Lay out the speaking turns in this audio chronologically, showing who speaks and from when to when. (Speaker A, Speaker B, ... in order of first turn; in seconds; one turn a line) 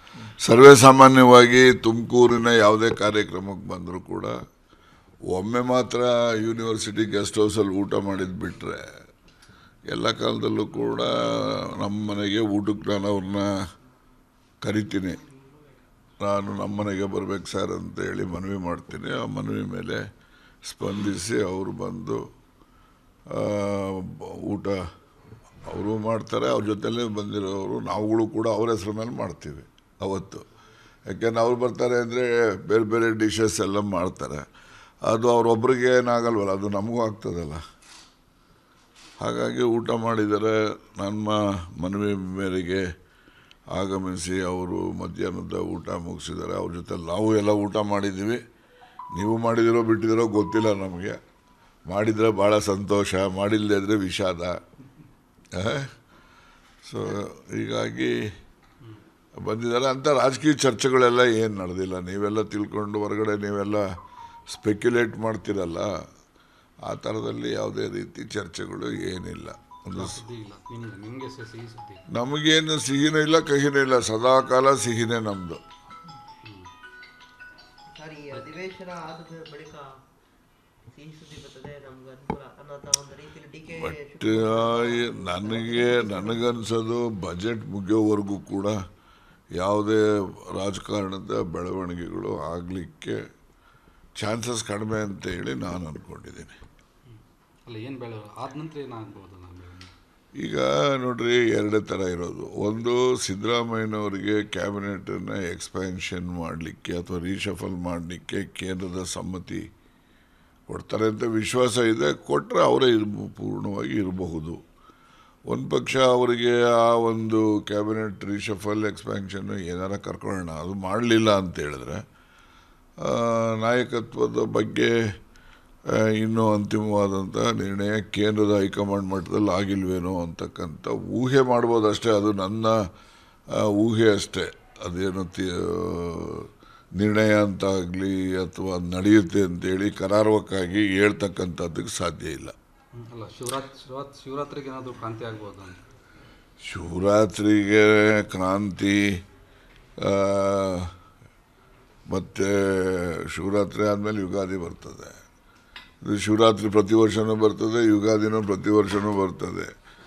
Speaker A: 0.4-4.3
Speaker A: 5.3-8.9
Speaker A: 9.9-13.5
Speaker A: 14.6-15.2
Speaker A: 16.2-20.0
Speaker A: 20.6-22.2
Speaker A: 23.3-24.8
Speaker A: 25.7-30.4
Speaker A: 31.1-34.5
Speaker A: 35.0-37.6
Speaker A: 39.2-42.9
Speaker A: 43.8-48.4
Speaker A: 49.1-51.2
Speaker A: 51.9-54.6
Speaker A: 55.5-55.9
Speaker A: 56.9-58.2
Speaker A: 59.4-63.8
Speaker A: 64.5-65.9
Speaker A: 66.9-70.2
Speaker B: 70.0-72.0
Speaker A: 72.1-75.6
Speaker B: 76.4-76.7
Speaker C: 77.9-79.9
Speaker C: 80.9-86.5
Speaker A: 83.8-88.8
Speaker A: 89.6-93.2
Speaker A: 94.2-96.6
Speaker B: 97.1-99.9
Speaker A: 100.4-109.7
Speaker A: 110.7-114.6
Speaker A: 115.5-122.0
Speaker A: 123.0-125.0
Speaker A: 126.2-132.8
Speaker A: 133.5-142.6
Speaker B: 143.0-145.8
Speaker A: 146.6-149.2
Speaker A: 150.0-150.9
Speaker A: 152.1-155.2
Speaker A: 156.0-159.7